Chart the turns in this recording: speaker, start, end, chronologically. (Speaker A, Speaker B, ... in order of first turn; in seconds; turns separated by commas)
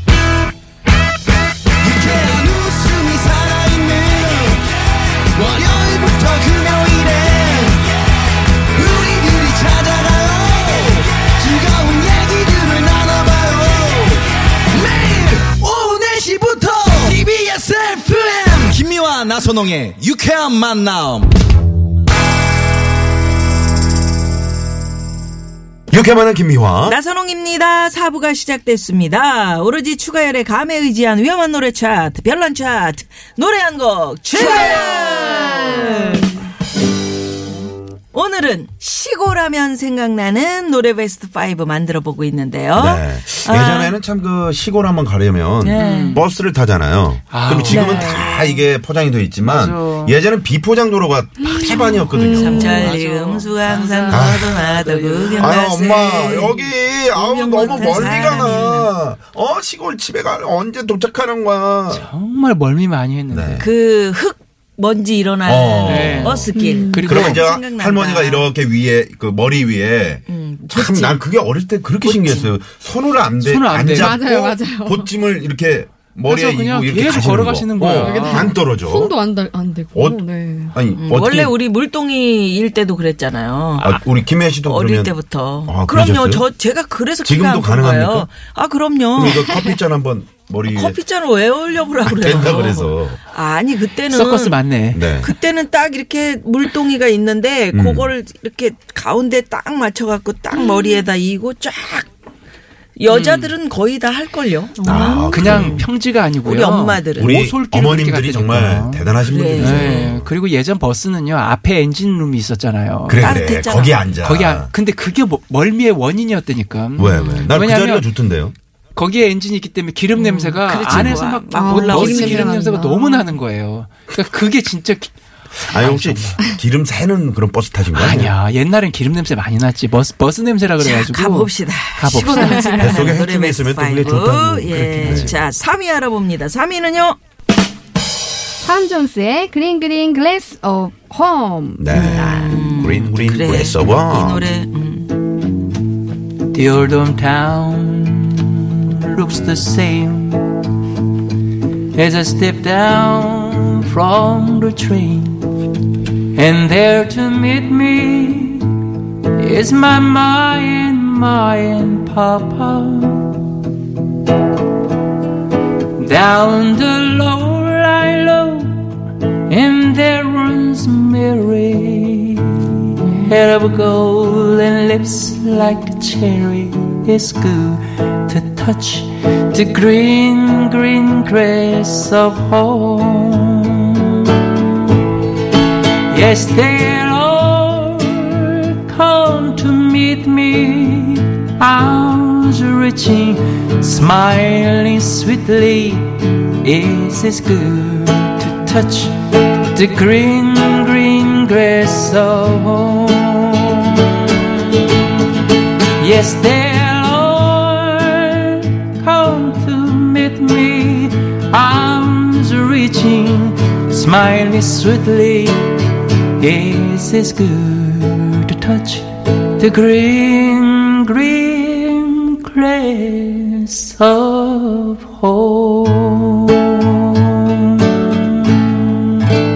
Speaker A: 1.8-4.7, Speaker A: 5.3-7.9, Speaker A: 8.7-21.3, Speaker B: 25.9-27.0, Speaker C: 26.8-36.4, Speaker C: 38.1-44.0, Speaker B: 42.8-52.9, Speaker C: 45.6-46.2, Speaker D: 45.8-46.2, Speaker D: 47.3-48.2, Speaker C: 47.7-48.7, Speaker D: 49.4-50.2, Speaker E: 51.4-52.9, Speaker C: 52.1-58.9, Speaker D: 52.4-55.5, Speaker B: 54.1-54.6, Speaker B: 55.3-62.1, Speaker D: 57.7-58.7, Speaker D: 61.9-63.7, Speaker B: 63.3-63.7, Speaker C: 63.6-68.5, Speaker B: 65.5-66.5, Speaker D: 65.9-67.5, Speaker E: 66.6-67.2, Speaker B: 67.0-79.2, Speaker C: 70.3-71.2, Speaker C: 72.0-72.6, Speaker D: 73.4-74.2, Speaker E: 74.0-75.1, Speaker D: 76.3-78.5, Speaker E: 78.0-80.8, Speaker B: 79.9-81.5, Speaker C: 81.0-84.0, Speaker B: 83.8-86.5, Speaker C: 84.6-89.7, Speaker B: 87.2-88.3, Speaker B: 89.2-91.0, Speaker C: 90.7-94.6, Speaker B: 92.0-93.2, Speaker D: 94.1-95.1, Speaker B: 94.9-95.3, Speaker C: 95.2-102.1, Speaker B: 97.7-98.1, Speaker C: 103.0-105.9, Speaker D: 103.1-103.5, Speaker E: 104.8-105.5, Speaker B: 104.8-105.8, Speaker D: 105.3-113.4, Speaker C: 106.4-107.4, Speaker B: 107.2-110.3, Speaker C: 109.2-110.2, Speaker B: 113.1-114.7, Speaker C: 113.2-114.1, Speaker D: 114.2-118.1, Speaker B: 117.0-118.5, Speaker C: 117.1-117.5, Speaker D: 119.0-126.4, Speaker C: 120.2-122.6, Speaker E: 121.5-123.4, Speaker B: 125.6-128.3, Speaker D: 127.9-133.1, Speaker C: 130.8-137.2, Speaker E: 132.4-132.9, Speaker B: 132.8-135.4, Speaker D: 135.0-135.3, Speaker E: 138.6-141.8, Speaker B: 141.8-144.5, Speaker C: 141.9-145.4, Speaker D: 146.5-150.6, Speaker D: 151.9-155.7, Speaker D: 156.3-163.4, Speaker D: 166.0-184.3, Speaker D: 186.1-204.8, Speaker D: 205.9-228.8